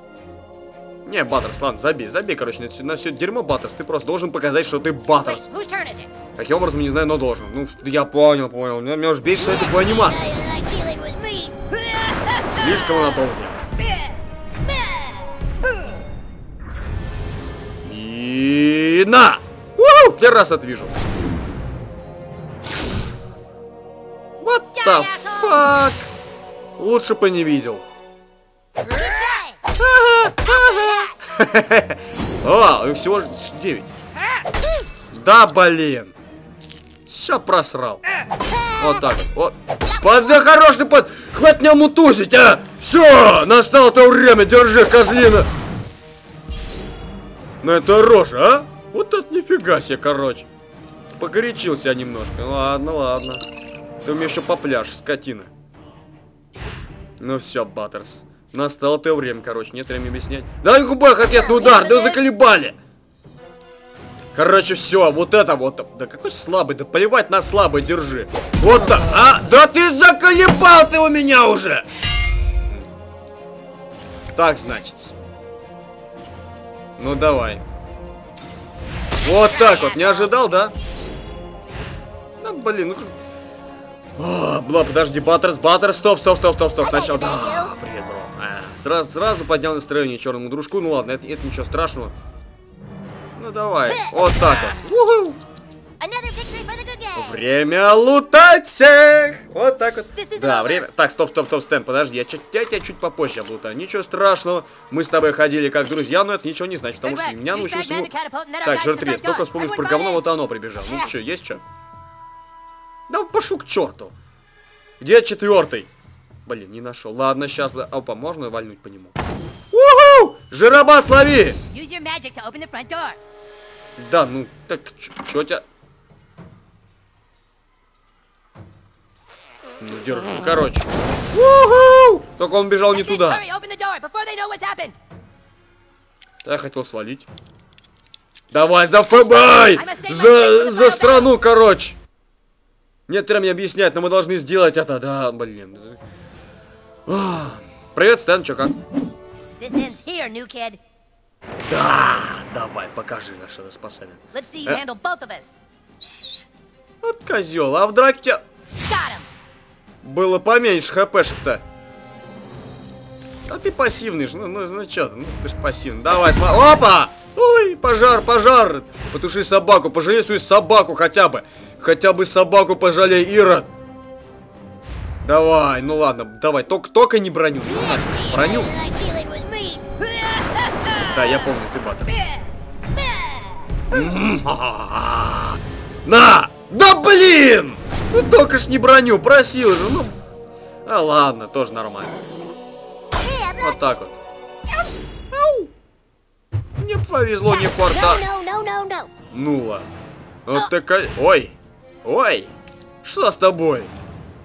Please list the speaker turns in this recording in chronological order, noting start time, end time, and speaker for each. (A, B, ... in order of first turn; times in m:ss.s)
0:01.1-0:05.4 A
0:05.3-0:06.1 B
0:06.4-0:10.3 A
0:09.4-0:11.7 B
0:12.5-0:13.6 A
0:17.8-0:21.0 A
0:24.4-0:26.1 A
0:24.8-0:25.6 B
0:26.8-0:27.8 A
0:28.8-0:29.6 B
0:29.8-0:33.9 A
0:30.5-0:31.1 B
0:35.1-0:36.1 A
0:37.1-0:38.0 A
0:38.4-0:39.0 B
0:38.8-0:45.5 A
0:39.8-0:40.4 B
0:47.6-0:50.5 A
0:51.2-0:53.4 A
0:54.0-0:55.5 A
0:57.2-1:02.8 A
1:01.3-1:02.2 B
1:04.3-1:11.9 A
1:14.4-1:15.1 A
1:17.0-1:17.6 A
1:19.2-1:20.7 A
1:19.7-1:20.1 C
1:22.4-1:23.1 A
1:24.2-1:32.1 A
1:26.8-1:27.7 B
1:33.4-1:35.4 A
1:33.9-1:34.7 B
1:36.0-1:37.4 B
1:37.1-1:48.1 A
1:40.2-1:40.8 C
1:47.0-1:50.2 C
1:48.6-1:51.6 A
1:53.1-1:54.1 A
1:55.0-1:55.9 A
1:56.4-1:59.1 A
1:59.7-2:01.6 A
2:01.7-2:03.2 C
2:04.0-2:05.6 A
2:09.8-2:13.4 A
2:12.9-2:15.0 C
2:16.4-2:17.3 A
2:18.5-2:22.0 A
2:19.3-2:21.3 C
2:23.1-2:26.0 A
2:27.1-2:28.8 A
2:29.6-2:30.8 C
2:31.6-2:34.8 A
2:34.3-2:35.6 C
2:37.0-2:38.4 A
2:38.8-2:39.3 C
2:40.0-2:41.6 A
2:43.5-2:53.7 A
2:55.2-2:58.7 A
2:57.6-2:59.9 B
3:01.1-3:02.1 A
3:03.9-3:10.2 A
3:10.9-3:12.2 A
3:13.1-3:14.0 B
3:13.6-3:14.2 A
3:15.3-3:15.7 A
3:16.8-3:18.2 A
3:17.5-3:19.1 B
3:19.3-3:19.9 A
3:20.5-3:22.5 A
3:23.0-3:23.9 A